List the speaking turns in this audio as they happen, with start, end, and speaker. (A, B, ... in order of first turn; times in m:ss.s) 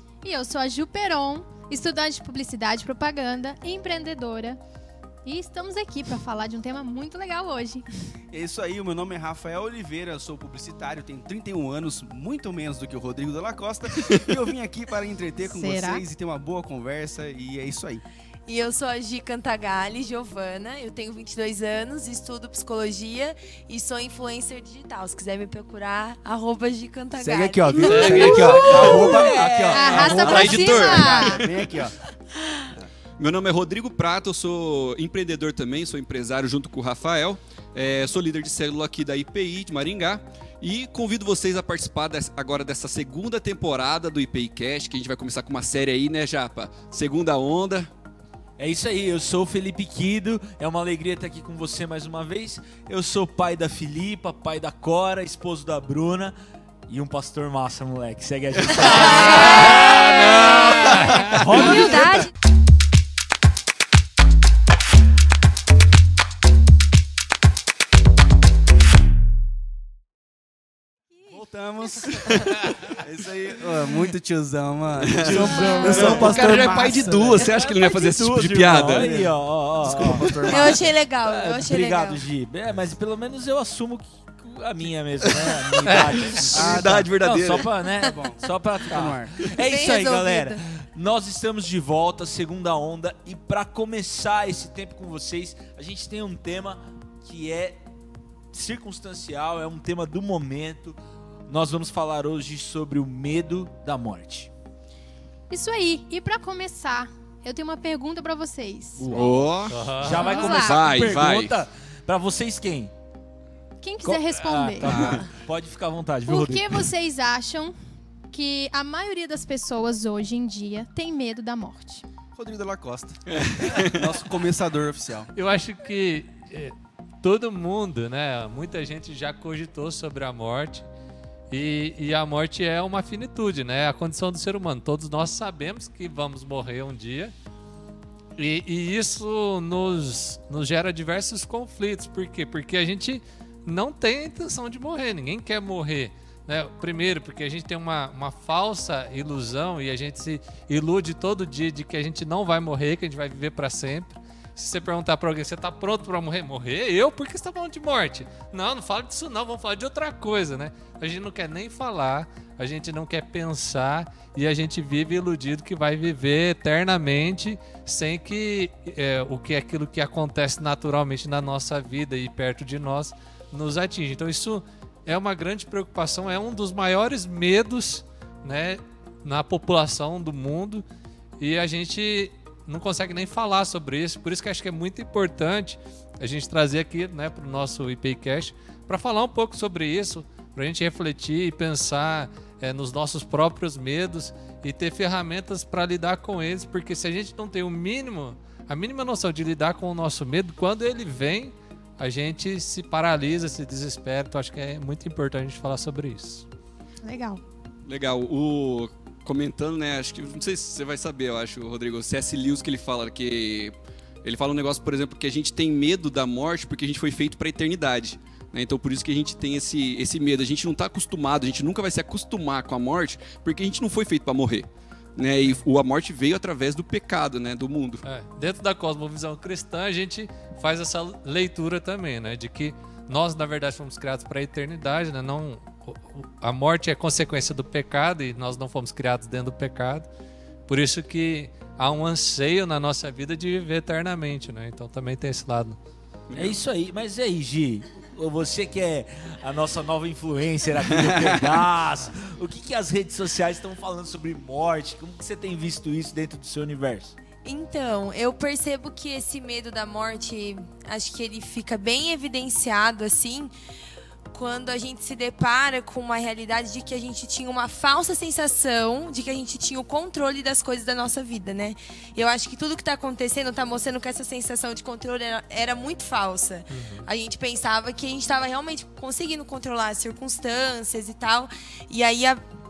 0:00.2-0:04.6 A
0:05.2-0:07.8 A
0:08.3-0:18.0 B
0:15.4-0:16.0 A
0:18.5-0:29.3 C
0:27.2-0:32.0 B
0:27.8-0:28.9 D
0:27.9-0:28.3 E
0:28.1-0:31.4 A
0:28.8-0:29.9 F
0:29.3-0:31.6 E
0:30.1-0:30.5 C
0:33.2-0:47.9 E
0:48.6-0:56.3 F
0:56.9-1:02.2 F
0:58.8-1:02.3 C
0:59.8-1:01.3 D
1:11.3-1:17.5 B
1:12.1-1:12.6 E
1:15.0-1:19.1 E
1:15.2-1:20.7 F
1:18.8-1:19.3 B
1:19.8-1:20.9 B
1:20.0-1:20.4 E
1:20.5-1:22.2 C
1:21.2-1:37.8 F
1:25.4-1:27.7 E
1:26.5-1:27.0 B
1:28.0-1:29.5 B
1:29.6-1:30.6 C
1:38.5-1:44.5 F
1:45.5-1:49.1 A
1:49.0-1:52.9 F
1:49.1-1:51.5 E
1:49.7-1:50.2 D
1:50.2-1:50.8 A
1:53.8-1:55.0 A
1:54.0-1:56.8 F
1:54.9-1:55.2 B
1:56.3-1:57.7 A
1:58.3-2:02.0 A
2:02.4-2:05.3 B
2:03.3-2:04.2 E
2:05.3-2:10.8 D
2:11.5-2:17.3 D
2:18.4-3:00.8 D
3:01.4-3:26.4 D
3:27.0-3:27.4 A
3:27.8-3:48.0 E
3:48.0-4:00.1 D
4:00.7-4:05.8 D
4:06.3-4:06.6 E
4:06.3-4:17.2 F
4:17.4-4:23.5 C
4:24.3-4:42.4 C
4:36.7-4:37.0 D